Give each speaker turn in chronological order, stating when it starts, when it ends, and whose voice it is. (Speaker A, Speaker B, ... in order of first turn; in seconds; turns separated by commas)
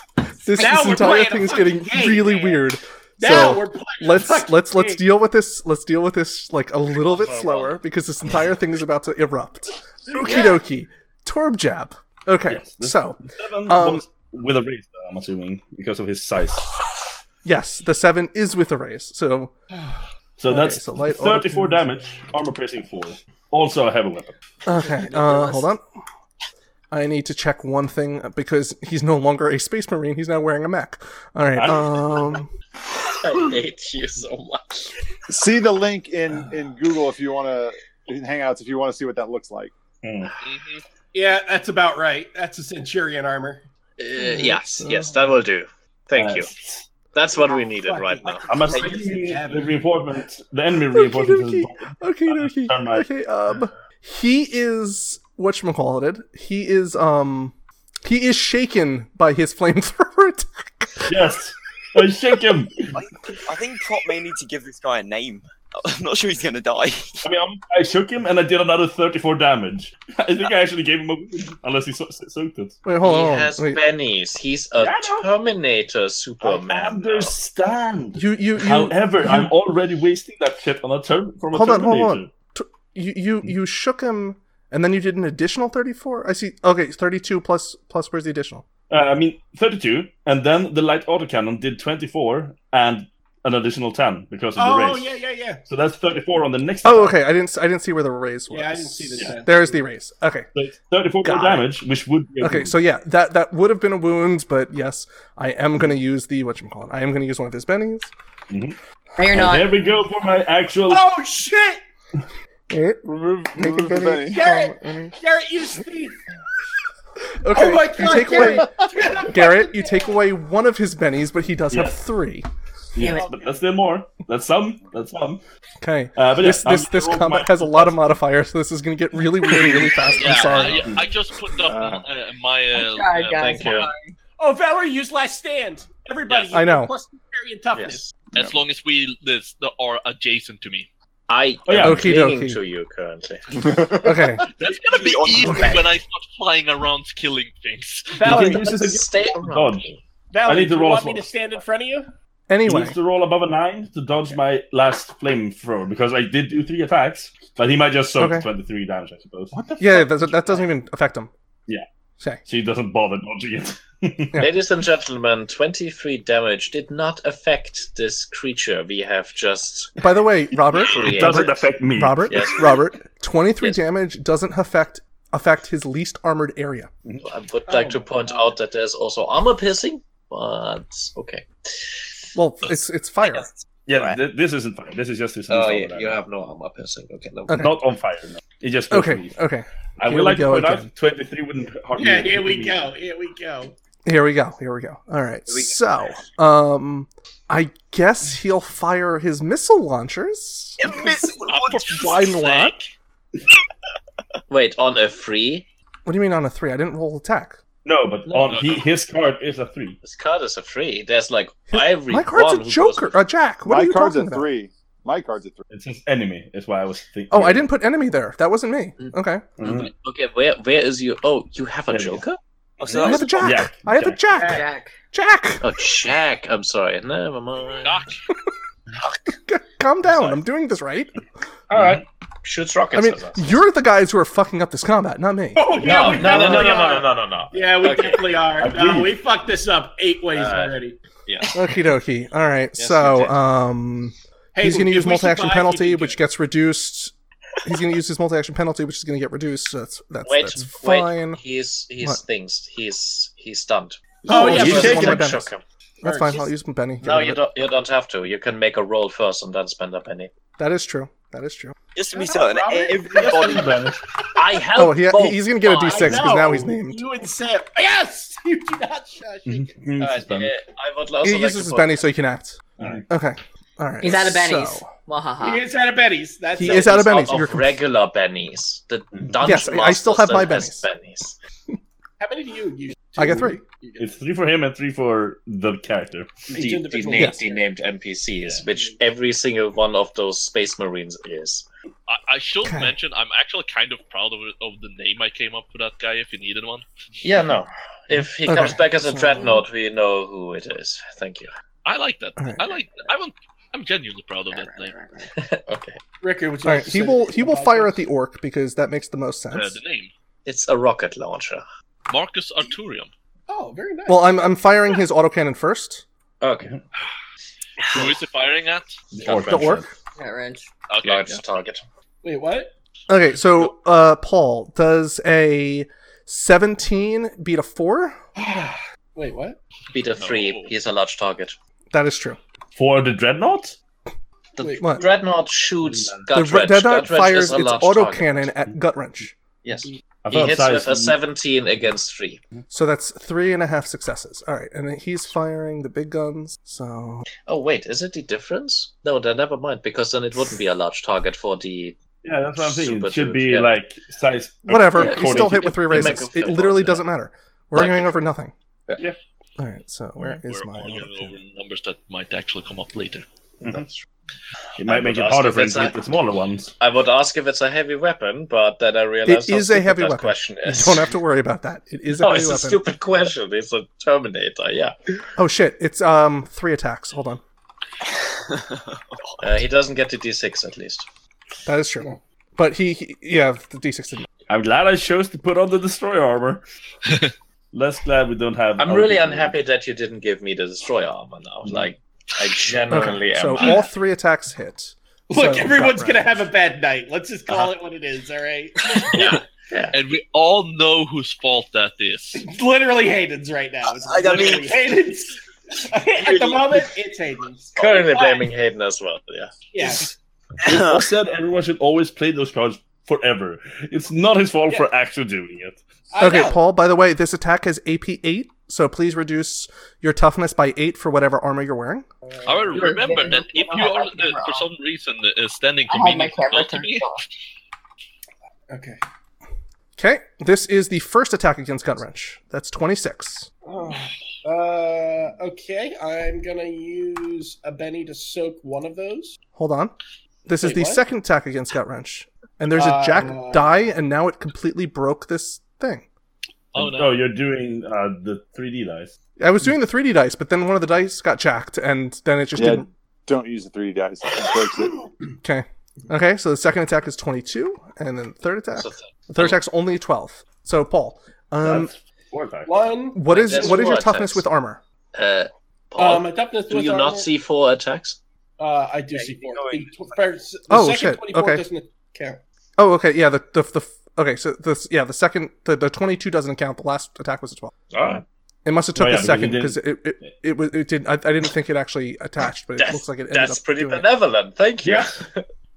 Speaker A: 0.4-14.0, Speaker B: 0.5-2.6, Speaker B: 3.2-5.0, Speaker C: 7.0-7.8, Speaker D: 12.5-16.7, Speaker A: 17.4-19.5, Speaker D: 20.4-24.3, Speaker A: 20.5-21.9, Speaker A: 24.6-25.8, Speaker E: 25.0-25.6, Speaker A: 26.9-32.5, Speaker D: 31.5-32.2, Speaker C: 33.2-34.9, Speaker F: 35.3-39.7, Speaker D: 40.0-40.3, Speaker G: 40.4-40.8, Speaker B: 41.1-43.6, Speaker C: 44.0-46.5, Speaker A: 44.2-45.2, Speaker D: 46.1-46.9, Speaker C: 47.1-48.4, Speaker B: 47.3-49.9, Speaker D: 48.5-53.1, Speaker A: 50.9-61.0, Speaker D: 61.0-62.9, Speaker H: 62.9-67.2, Speaker D: 67.2-72.8, Speaker A: 72.8-73.8, Speaker C: 73.0-77.3, Speaker D: 74.8-75.3, Speaker D: 76.4-82.3, Speaker A: 78.2-79.5, Speaker A: 81.5-88.6, Speaker D: 88.9-95.1, Speaker B: 94.5-95.6, Speaker D: 95.7-97.2, Speaker A: 96.8-100.5, Speaker B: 98.5-99.8, Speaker D: 100.5-102.8, Speaker A: 101.2-101.7, Speaker A: 102.4-108.1, Speaker D: 108.5-108.8, Speaker E: 109.2-109.8, Speaker D: 109.3-111.0, Speaker B: 110.8-111.8, Speaker A: 112.7-115.1, Speaker F: 113.0-114.4, Speaker B: 114.3-116.2, Speaker A: 117.4-118.7, Speaker B: 117.5-120.2, Speaker A: 119.2-122.5, Speaker D: 121.7-122.0, Speaker D: 122.9-125.4, Speaker E: 123.0-123.3, Speaker B: 123.0-123.6, Speaker A: 125.8-130.9, Speaker D: 126.2-128.1, Speaker C: 130.0-130.8, Speaker G: 130.2-133.8, Speaker F: 131.7-132.0, Speaker E: 132.7-134.1, Speaker C: 133.4-133.9, Speaker B: 134.4-138.2, Speaker G: 136.3-136.5, Speaker A: 136.5-136.9, Speaker C: 137.7-138.1, Speaker G: 138.3-140.9, Speaker C: 141.3-143.7, Speaker D: 141.7-142.2, Speaker A: 141.8-142.6, Speaker A: 144.0-144.4, Speaker G: 144.6-148.2, Speaker H: 144.9-145.9, Speaker B: 148.2-148.6, Speaker D: 148.2-149.9, Speaker C: 148.2-150.0, Speaker B: 150.3-152.1, Speaker D: 150.4-151.3, Speaker A: 152.5-152.9, Speaker D: 152.7-160.3, Speaker A: 158.2-158.5, Speaker A: 159.8-161.3, Speaker D: 162.4-164.4, Speaker C: 164.4-169.9, Speaker A: 170.0-176.9, Speaker C: 170.8-171.6, Speaker D: 171.0-172.4, Speaker C: 172.3-172.7, Speaker C: 177.2-182.0, Speaker B: 177.7-178.5, Speaker A: 182.3-183.5, Speaker D: 183.8-186.2, Speaker C: 185.5-187.6, Speaker A: 187.5-187.7, Speaker D: 187.5-189.4, Speaker A: 188.9-190.9, Speaker D: 190.0-192.8, Speaker B: 191.9-193.7, Speaker A: 194.1-200.9, Speaker H: 195.5-196.2, Speaker H: 200.8-201.9, Speaker G: 201.5-202.9, Speaker A: 201.5-202.7, Speaker C: 204.5-205.7, Speaker A: 206.1-207.6, Speaker D: 207.8-210.0, Speaker C: 208.3-208.6, Speaker G: 208.5-208.8, Speaker C: 210.0-213.2, Speaker A: 211.7-214.5, Speaker F: 213.6-215.6, Speaker D: 215.7-217.7, Speaker A: 217.3-219.4, Speaker C: 219.0-222.4, Speaker D: 219.6-219.9, Speaker D: 221.9-222.2, Speaker H: 222.8-223.5, Speaker D: 222.9-224.2, Speaker A: 222.9-225.6, Speaker B: 224.3-224.6, Speaker E: 224.4-224.9, Speaker C: 225.6-228.0, Speaker G: 227.8-228.2, Speaker A: 229.4-231.2, Speaker D: 231.7-232.0, Speaker C: 231.7-233.6, Speaker A: 232.9-235.6, Speaker B: 235.5-241.0, Speaker C: 235.8-238.3, Speaker D: 238.6-239.2, Speaker C: 240.3-241.5, Speaker A: 241.5-251.4, Speaker C: 242.8-243.4, Speaker B: 244.5-246.2, Speaker C: 250.2-255.6, Speaker A: 254.2-255.5, Speaker B: 254.3-255.2, Speaker D: 254.4-255.2, Speaker A: 256.0-257.4, Speaker B: 256.0-256.5, Speaker C: 257.0-260.3, Speaker A: 260.6-261.8, Speaker H: 261.9-263.7, Speaker B: 262.1-264.0, Speaker D: 263.2-264.0, Speaker C: 264.3-266.1, Speaker A: 264.8-267.0, Speaker B: 265.7-269.7, Speaker D: 269.4-270.5, Speaker C: 270.0-272.0, Speaker A: 271.2-274.9, Speaker D: 272.8-273.0, Speaker E: 274.0-275.6, Speaker B: 275.4-277.3, Speaker A: 276.5-277.8, Speaker C: 276.6-281.4, Speaker A: 279.4-280.8, Speaker B: 282.2-284.1, Speaker A: 283.2-283.6, Speaker D: 284.0-286.7, Speaker B: 286.5-287.6, Speaker C: 286.5-291.6, Speaker B: 288.7-288.9, Speaker G: 292.1-296.8, Speaker A: 292.6-292.9, Speaker C: 297.2-301.5, Speaker A: 298.4-299.4, Speaker G: 301.8-304.9, Speaker A: 302.4-302.6, Speaker C: 305.4-306.0, Speaker B: 306.2-308.0, Speaker A: 306.6-309.8, Speaker G: 309.5-310.1, Speaker C: 310.4-311.6, Speaker G: 312.1-313.1, Speaker B: 313.5-314.5, Speaker A: 314.1-316.0, Speaker C: 316.4-316.8, Speaker G: 317.9-319.0, Speaker D: 319.1-319.9, Speaker C: 319.2-319.8, Speaker A: 319.4-319.8, Speaker E: 320.2-320.7, Speaker G: 320.9-321.4, Speaker C: 321.0-321.8, Speaker B: 322.2-322.7, Speaker A: 323.1-328.2, Speaker B: 328.4-329.6, Speaker C: 329.9-331.6, Speaker G: 330.2-330.7, Speaker A: 331.9-332.4, Speaker D: 332.7-333.8, Speaker C: 334.6-338.5, Speaker B: 334.6-335.0, Speaker D: 335.8-336.2, Speaker A: 336.3-339.3, Speaker C: 339.6-342.4, Speaker D: 340.2-341.1, Speaker A: 342.7-347.2, Speaker C: 347.5-351.9, Speaker D: 352.2-356.2, Speaker C: 352.6-353.8, Speaker A: 354.7-358.5, Speaker C: 355.0-357.0, Speaker C: 357.7-358.1, Speaker A: 359.6-361.3, Speaker G: 360.2-363.2, Speaker C: 363.6-364.0, Speaker D: 364.8-366.7, Speaker C: 364.8-366.0, Speaker C: 366.8-371.1, Speaker A: 369.2-372.8, Speaker C: 372.2-374.9, Speaker A: 375.4-377.4, Speaker H: 378.5-379.0, Speaker C: 379.4-381.1, Speaker A: 381.6-384.2, Speaker D: 384.5-386.6, Speaker D: 387.7-389.5, Speaker C: 388.8-393.9, Speaker D: 391.6-391.9, Speaker A: 392.9-396.3, Speaker B: 395.3-399.4, Speaker C: 399.1-399.9, Speaker G: 399.9-402.4, Speaker B: 402.4-408.5, Speaker H: 404.0-404.9, Speaker C: 407.8-410.1, Speaker B: 409.7-410.1, Speaker D: 410.6-415.8, Speaker H: 410.6-411.1, Speaker B: 416.1-416.6, Speaker A: 416.2-422.1, Speaker B: 422.2-423.0, Speaker G: 422.4-427.1, Speaker E: 422.7-424.7, Speaker E: 425.9-427.2, Speaker B: 428.7-429.0, Speaker A: 430.0-433.5, Speaker B: 433.6-439.4, Speaker A: 439.6-439.9, Speaker A: 440.5-446.0, Speaker B: 440.6-441.0, Speaker B: 442.7-443.7, Speaker D: 446.7-449.1, Speaker G: 446.8-447.1, Speaker A: 449.4-452.9, Speaker F: 452.5-455.0, Speaker A: 455.4-461.9, Speaker C: 458.7-459.6, Speaker D: 461.6-462.7, Speaker B: 462.6-463.9, Speaker A: 463.1-464.8, Speaker C: 463.3-464.5, Speaker C: 465.1-468.2, Speaker B: 466.0-467.3, Speaker B: 468.6-472.4, Speaker H: 469.1-470.2, Speaker A: 470.7-471.6, Speaker A: 472.8-477.7, Speaker C: 477.9-478.2, Speaker A: 478.6-484.1, Speaker D: 478.9-480.3, Speaker C: 482.8-485.4, Speaker D: 484.8-485.2